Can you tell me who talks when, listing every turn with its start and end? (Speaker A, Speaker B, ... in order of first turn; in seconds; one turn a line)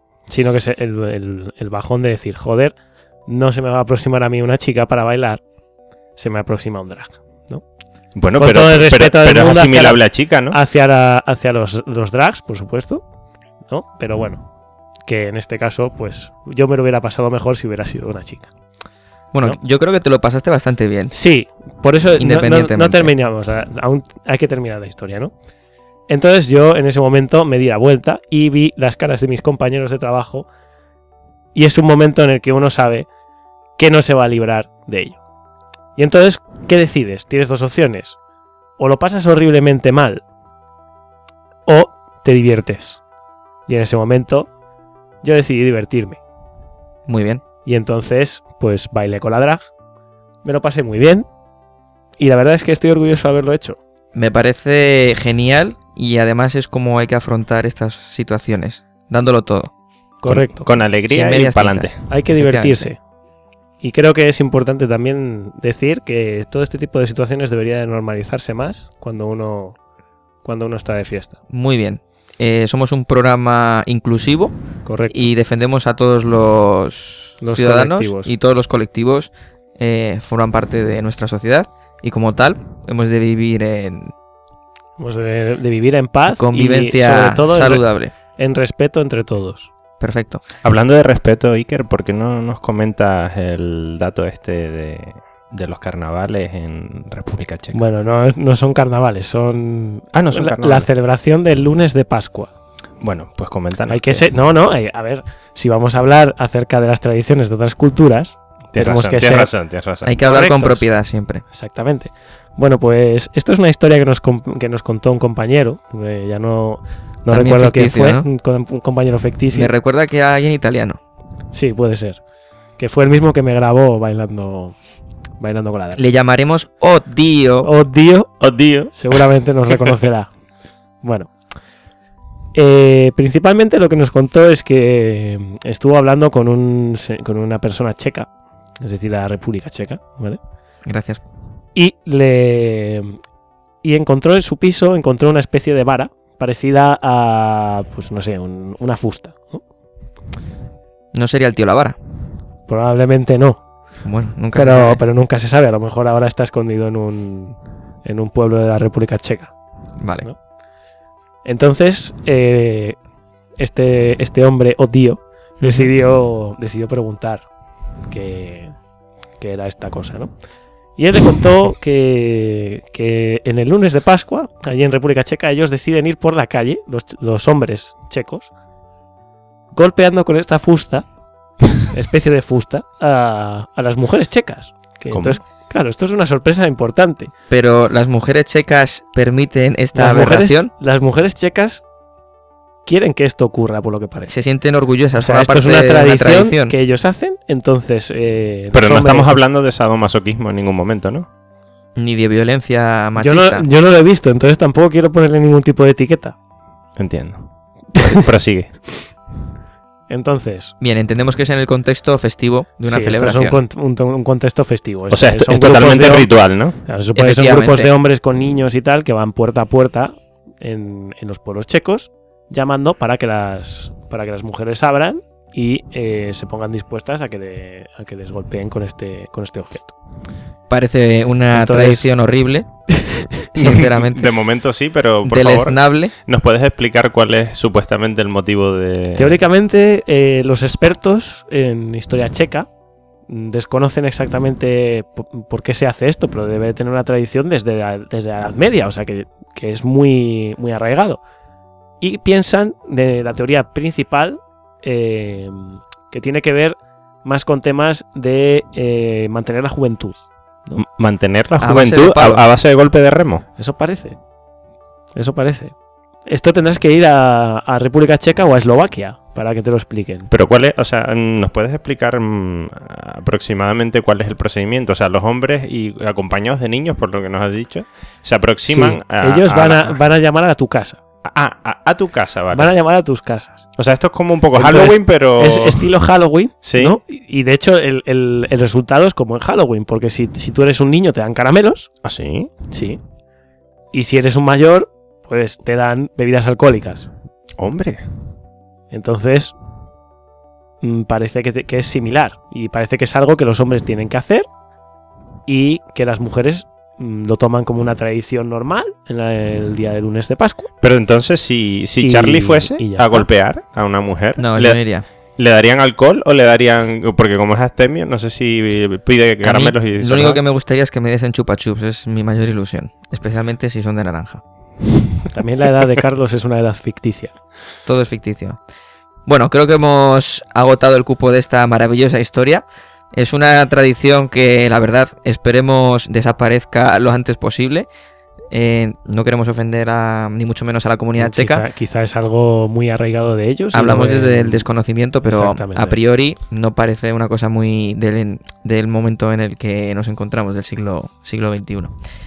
Speaker A: 0.3-5.4
Speaker A: 6.2-7.6
Speaker B: 8.2-10.6
Speaker A: 8.4-13.0
Speaker A: 13.7-14.4
Speaker A: 15.1-18.5
Speaker C: 19.3-21.1
Speaker A: 21.1-25.3
Speaker C: 22.2-23.1
Speaker A: 26.1-30.5
Speaker A: 31.6-33.1
Speaker A: 33.8-35.2
Speaker A: 36.0-38.2
Speaker A: 38.8-40.2
Speaker A: 41.7-43.0
Speaker A: 43.7-44.5
Speaker A: 45.2-46.2
Speaker C: 47.1-47.4
Speaker A: 47.6-49.7
Speaker A: 50.4-51.3
Speaker A: 52.2-53.8
Speaker C: 54.1-59.7
Speaker A: 60.2-60.8
Speaker B: 60.3-62.0
Speaker C: 61.1-62.9
Speaker A: 62.1-63.0
Speaker A: 63.8-69.8
Speaker A: 70.4-71.3
Speaker C: 71.5-74.6
Speaker A: 74.8-75.3
Speaker C: 75.1-84.1
Speaker A: 77.4-78.3
Speaker A: 85.0-89.7
Speaker C: 86.3-88.1
Speaker C: 90.0-90.4
Speaker B: 90.6-97.8
Speaker A: 97.7-102.5
Speaker B: 100.1-100.9
Speaker B: 103.0-104.2
Speaker A: 103.9-109.5
Speaker B: 108.7-110.2
Speaker C: 110.0-111.4
Speaker A: 110.2-110.9
Speaker A: 111.5-119.7
Speaker C: 117.3-118.2
Speaker C: 119.5-121.0
Speaker A: 121.5-122.2
Speaker A: 122.8-124.8
Speaker A: 125.4-126.0
Speaker C: 126.0-127.7
Speaker A: 127.6-128.3
Speaker B: 128.4-129.2
Speaker A: 128.9-130.3
Speaker A: 131.0-131.3
Speaker A: 132.5-138.3
Speaker A: 138.8-140.4
Speaker C: 140.8-141.2
Speaker A: 141.8-143.2
Speaker A: 143.8-149.6
Speaker C: 151.1-152.0
Speaker A: 152.7-153.6
Speaker C: 154.0-155.0
Speaker A: 154.5-159.5
Speaker C: 160.0-160.3
Speaker A: 161.4-163.0
Speaker A: 163.6-167.5
Speaker C: 165.6-165.9
Speaker A: 168.1-168.7
Speaker A: 169.4-170.3
Speaker A: 171.0-178.5
Speaker A: 179.7-181.1
Speaker A: 181.8-187.3
Speaker B: 185.1-185.4
Speaker C: 187.5-190.7
Speaker A: 189.9-191.8
Speaker A: 192.8-194.3
Speaker C: 194.3-196.8
Speaker A: 195.2-199.4
Speaker B: 198.7-201.3
Speaker C: 202.0-203.7
Speaker A: 203.2-206.4
Speaker B: 207.0-208.8
Speaker A: 208.0-208.2
Speaker A: 210.1-210.7
Speaker C: 210.8-213.6
Speaker A: 212.8-216.3
Speaker B: 215.1-216.8
Speaker A: 216.8-230.0
Speaker C: 217.2-217.9
Speaker C: 230.7-232.7
Speaker A: 231.5-232.1
Speaker A: 233.0-233.4
Speaker C: 233.5-234.3
Speaker B: 233.6-239.4
Speaker C: 235.2-236.1
Speaker A: 239.2-242.7
Speaker A: 243.3-251.2
Speaker A: 252.0-260.8
Speaker B: 260.8-263.4
Speaker C: 261.6-262.4
Speaker A: 263.6-264.2
Speaker A: 265.2-265.7
Speaker A: 266.3-270.3
Speaker B: 270.3-280.0
Speaker A: 278.7-281.0
Speaker B: 281.2-282.7
Speaker A: 282.5-283.7
Speaker B: 283.8-285.9
Speaker A: 284.6-291.9
Speaker B: 286.6-287.0
Speaker B: 292.0-292.5
Speaker A: 292.7-293.0
Speaker A: 293.9-297.1
Speaker B: 297.6-298.0
Speaker A: 298.9-299.5
Speaker A: 300.8-304.5
Speaker A: 305.5-310.7
Speaker B: 310.8-314.8
Speaker A: 312.0-313.3
Speaker C: 314.4-315.1
Speaker B: 315.4-320.4
Speaker C: 319.4-324.4
Speaker A: 325.3-327.3
Speaker C: 327.9-328.6
Speaker C: 329.3-337.9
Speaker C: 338.5-341.7
Speaker A: 341.2-344.7
Speaker C: 343.7-351.9
Speaker A: 345.3-346.0